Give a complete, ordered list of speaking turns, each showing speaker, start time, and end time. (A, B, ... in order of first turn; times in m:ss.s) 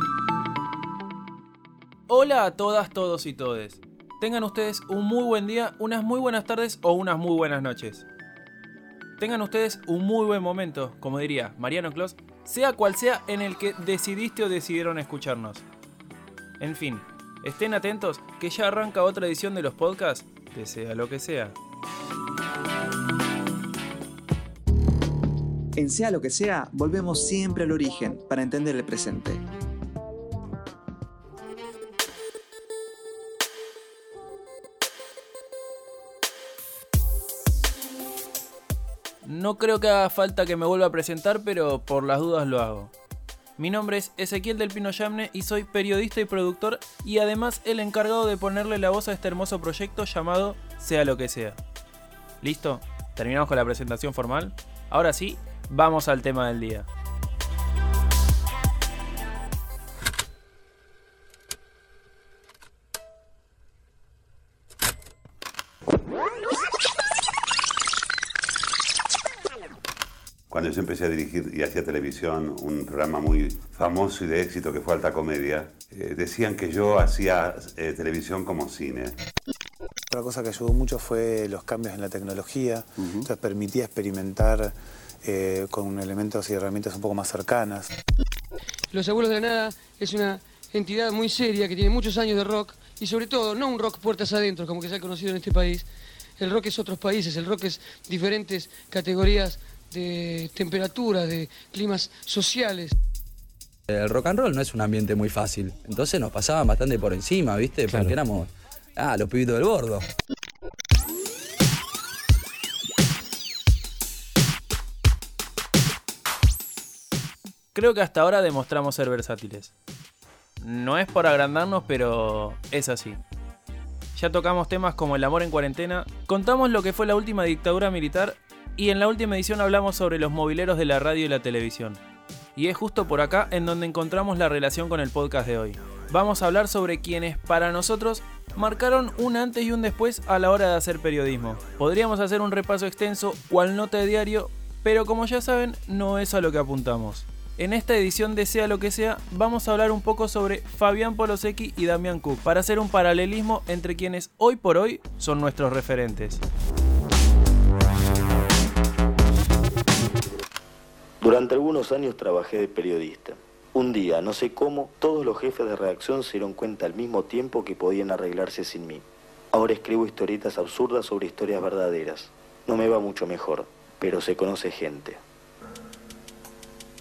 0:02.1-0:08.0 A
0:09.2-0:15.6 A
0:16.6-0:21.6 A
0:25.8-0:29.4 B
0:39.2-0:42.9 A
0:43.6-0:51.6 A
0:52.4-0:56.9 A
1:10.5-1:19.2 C
1:20.1-1:27.9 D
1:28.9-1:35.9 E
1:36.4-1:42.9 E
1:43.9-1:50.1 F
1:57.7-1:59.7 A
2:00.6-2:03.2 A
2:04.2-2:12.0 A
2:12.6-2:36.4 A
2:41.2-2:55.2 G